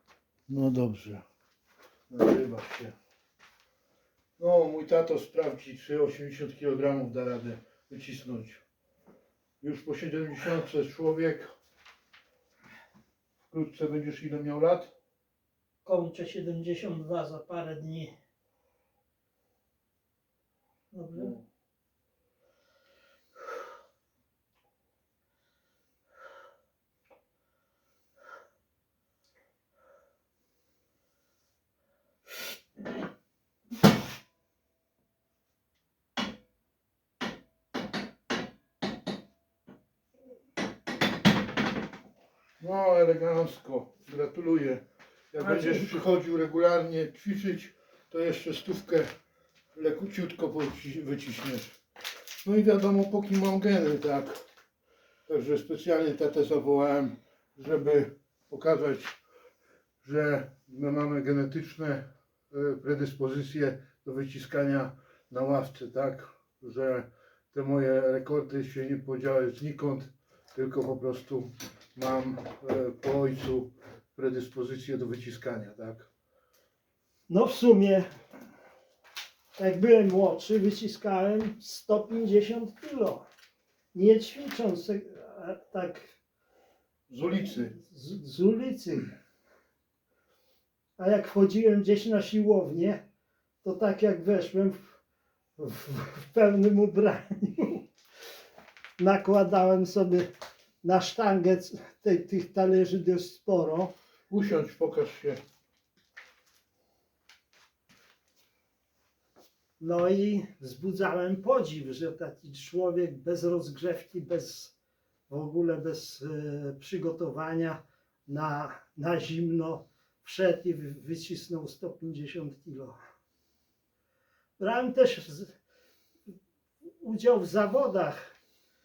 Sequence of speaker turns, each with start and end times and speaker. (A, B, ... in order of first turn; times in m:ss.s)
0:00.5-0:01.2 A
0:02.1-0:02.9 A
0:04.4-0:08.6 A
0:09.6-0:11.5 A
0:13.5-0:14.9 A
0:15.8-0:18.1 B
0:20.9-0:21.3 B
0:21.2-0:21.4 A
0:42.6-0:49.1 A
0:45.5-0:45.8 B
0:49.7-0:51.8 A
0:52.4-0:54.4 A
0:55.3-0:59.2 A
1:00.0-1:16.1 A
1:17.3-1:18.1 B
1:19.6-1:23.3 B
1:23.9-1:26.1 B
1:27.1-1:27.7 A
1:27.6-1:29.1 B
1:31.0-1:33.0 B
1:33.6-1:34.9 B
1:35.6-1:37.8 B
1:39.0-1:40.3 B
1:40.8-1:43.9 B
1:44.3-1:45.4 A
1:49.8-1:54.8 B
1:55.3-2:03.0 B
2:04.6-2:05.5 B
2:07.0-2:08.3 B